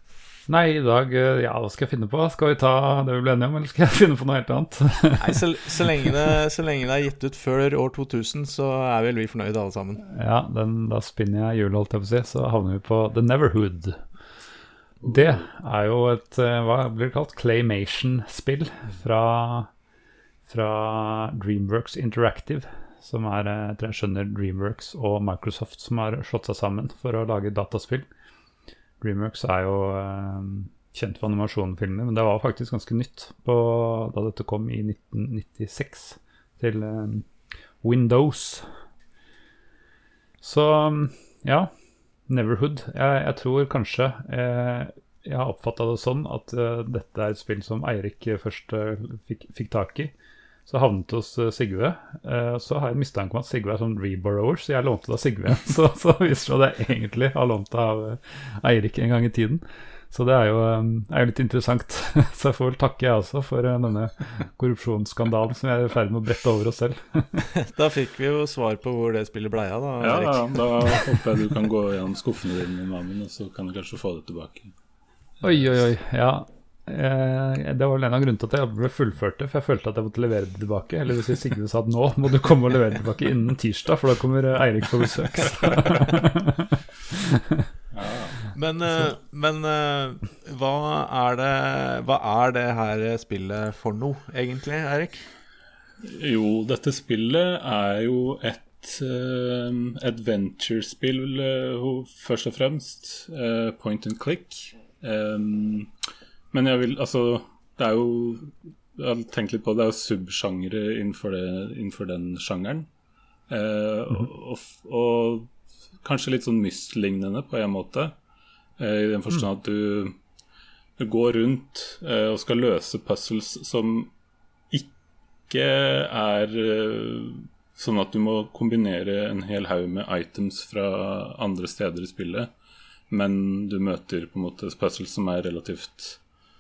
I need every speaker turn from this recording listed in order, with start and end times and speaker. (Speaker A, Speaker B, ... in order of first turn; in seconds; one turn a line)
Speaker A: 0.5-5.4
Speaker B: 5.2-10.0
Speaker A: 10.0-14.1
Speaker A: 15.0-19.7
Speaker C: 15.1-15.3
Speaker A: 20.5-28.1
Speaker A: 29.0-37.3
Speaker A: 37.8-38.7
Speaker A: 40.4-41.7
Speaker A: 42.3-50.1
Speaker A: 50.7-67.5
Speaker B: 67.5-71.2
Speaker C: 70.0-74.7
Speaker A: 75.4-87.7
Speaker C: 87.9-88.5
Speaker B: 88.5-95.3
Speaker C: 96.0-105.9
Speaker C: 106.5-112.9
Speaker C: 113.5-115.5
Speaker C: 116.0-118.2
Speaker C: 118.8-120.2
Speaker C: 121.0-124.1
Speaker C: 125.5-132.5
Speaker C: 133.1-136.2